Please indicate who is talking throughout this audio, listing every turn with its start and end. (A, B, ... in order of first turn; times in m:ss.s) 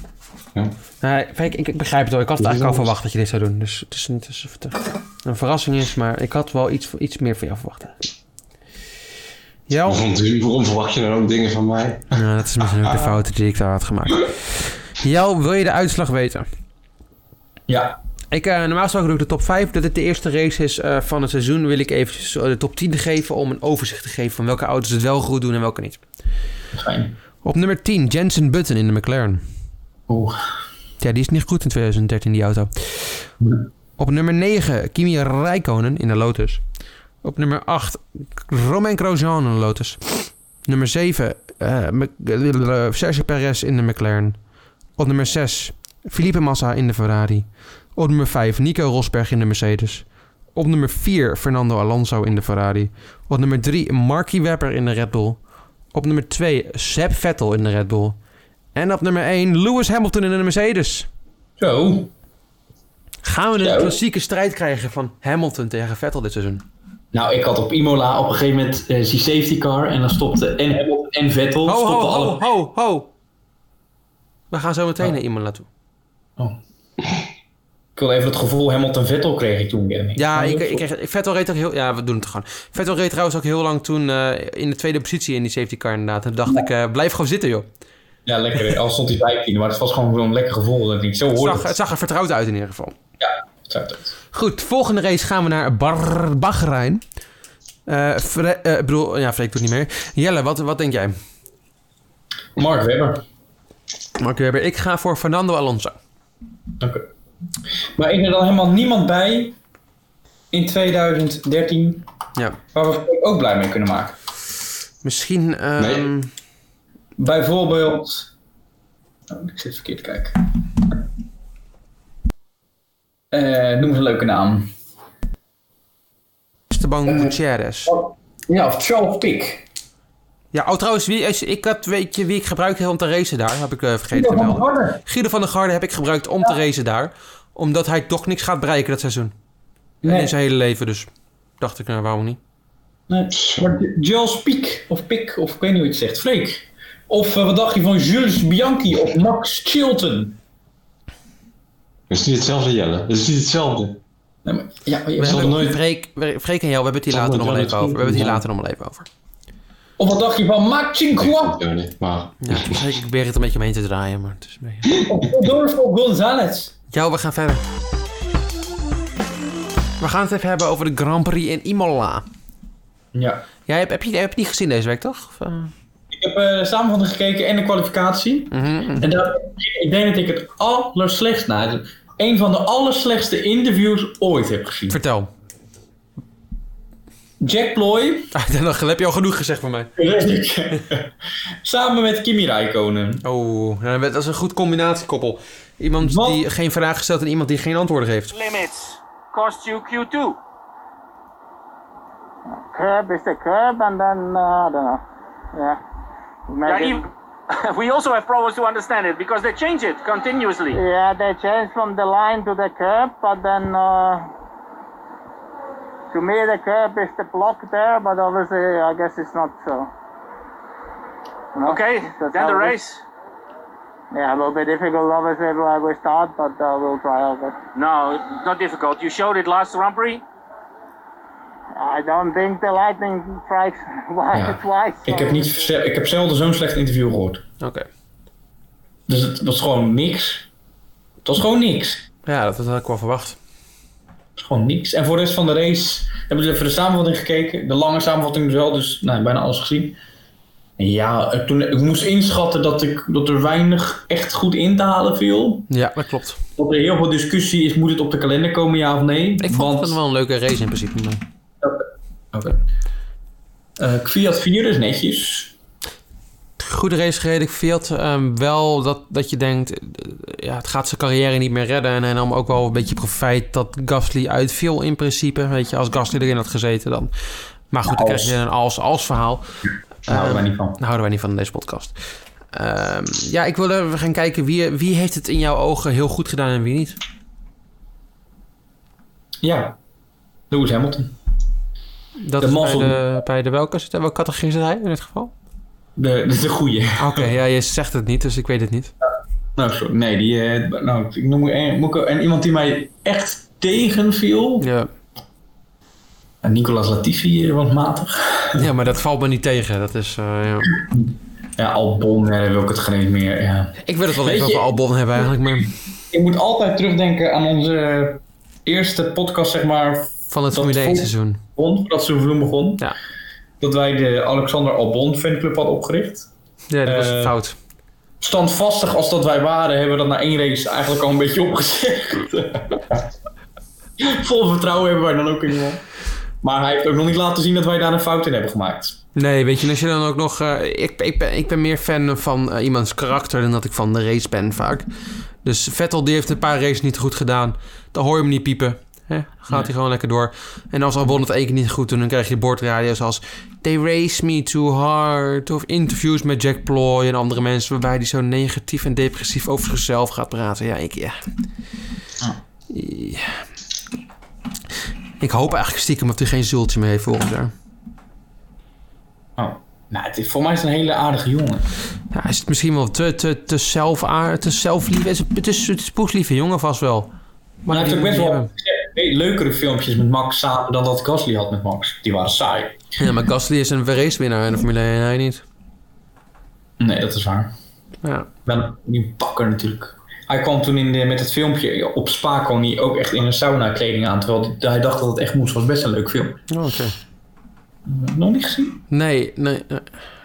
0:01.0-0:08.0 A
0:02.4-0:02.9 B
0:09.7-0:10.0 A
0:09.8-0:12.1 B
0:12.1-0:16.4 A
0:17.7-0:18.0 C
0:18.3-0:26.0 A
0:26.7-0:27.1 C
0:27.4-0:29.4 A
0:30.1-0:30.4 C
0:31.0-0:33.2 A
0:34.0-0:36.6 A
0:37.2-0:44.4 A
0:45.0-0:55.4 A
0:55.9-0:58.2 A
0:58.7-1:01.1 A
1:01.6-1:02.1 C
1:03.2-1:06.6 A
1:03.6-1:04.0 C
1:07.1-1:12.4 C
1:11.6-1:13.1 A
1:14.5-1:15.7 A
1:18.0-1:20.8 C
1:20.2-1:27.7 A
1:28.2-1:31.7 C
1:31.4-1:33.0 A
1:33.2-1:34.1 C
1:34.3-1:37.0 A
1:37.8-1:41.2 A
1:42.6-1:43.2 C
1:44.2-1:46.0 A
1:46.8-1:47.0 C
1:48.0-1:49.5 C
1:50.5-1:52.0 C
1:52.7-1:54.1 C
1:55.0-1:56.3 A
1:55.8-1:56.1 B
1:57.2-1:58.3 C
1:59.3-2:01.0 C
2:03.3-2:04.7 C
2:06.7-2:07.9 A
2:07.0-2:07.3 C
2:07.9-2:09.6 C
2:10.5-2:19.3 A
2:14.1-2:15.0 C
2:20.0-2:20.3 C
2:20.0-2:21.1 A
2:21.6-2:22.4 A
2:23.1-2:30.4 C
2:23.3-2:23.6 B
2:32.1-2:34.0 B
2:34.4-2:35.7 C
2:35.2-2:39.1 A
2:35.2-2:35.8 B
2:37.1-2:38.4 B
2:40.0-2:41.6 C
2:41.2-2:42.8 B
2:42.4-2:45.0 A
2:45.0-2:46.7 C
2:46.9-2:47.6 A
2:50.0-2:52.2 A
2:53.1-2:53.4 C
2:53.7-2:55.7 A
2:56.1-3:05.0 C
2:58.5-2:59.1 A
3:04.9-3:05.3 A
3:07.4-3:08.3 C
3:08.3-3:09.9 A
3:10.0-3:11.1 C
3:11.6-3:13.2 C
3:13.2-3:18.3 A
3:16.0-3:16.4 C
3:18.3-3:20.4 D
3:22.5-3:25.0 E
3:25.5-3:25.8 E
3:26.5-3:27.0 E
3:26.6-3:30.8 D
3:30.7-3:34.3 E
3:36.1-3:39.9 E
3:41.5-3:42.8 E
3:41.6-3:43.0 D
3:44.1-3:47.6 E
3:47.7-3:50.2 D
3:51.7-3:55.6 E
3:54.3-3:57.4 C
3:57.6-3:57.8 A
3:59.1-4:00.5 C
4:01.2-4:02.0 C
4:02.2-4:03.4 A
4:04.4-4:10.0 C
4:10.8-4:15.7 C
4:15.7-4:16.4 A
4:16.6-4:20.0 C
4:19.4-4:21.2 A
4:21.6-4:22.6 C
4:23.8-4:25.5 C
4:26.6-4:37.1 A
4:37.7-4:39.5 A
4:37.8-4:38.3 C
4:40.1-4:40.8 C
4:40.1-4:42.0 A
4:42.5-4:47.0 A
4:49.4-4:49.7 C
4:50.5-4:51.1 C
4:52.2-4:55.3 A
4:52.4-4:53.0 C
4:56.0-4:57.3 C
4:57.0-4:58.9 A
4:59.6-5:04.6 C
5:04.6-5:04.9 A
5:06.4-5:08.6 C
5:08.5-5:10.8 A
5:10.9-5:14.6 C
5:13.8-5:15.7 A
5:16.1-5:22.8 C
5:20.3-5:21.4 A
5:23.6-5:26.3 C
5:26.7-5:27.5 A
5:26.8-5:27.4 C
5:28.2-5:33.0 C
5:34.0-5:35.8 C
5:36.4-5:39.0 C
5:39.2-5:44.8 A
5:45.4-6:01.2 A
6:02.7-6:03.4 A
6:05.2-6:07.5 A
6:09.4-6:11.7 C
6:12.1-6:17.1 A
6:17.6-6:18.5 A
6:17.7-6:22.7 C
6:23.0-6:25.4 A
6:26.8-6:27.5 C
6:28.4-6:36.4 C
6:36.5-6:37.0 A
6:37.8-6:38.8 C
6:38.9-6:39.9 A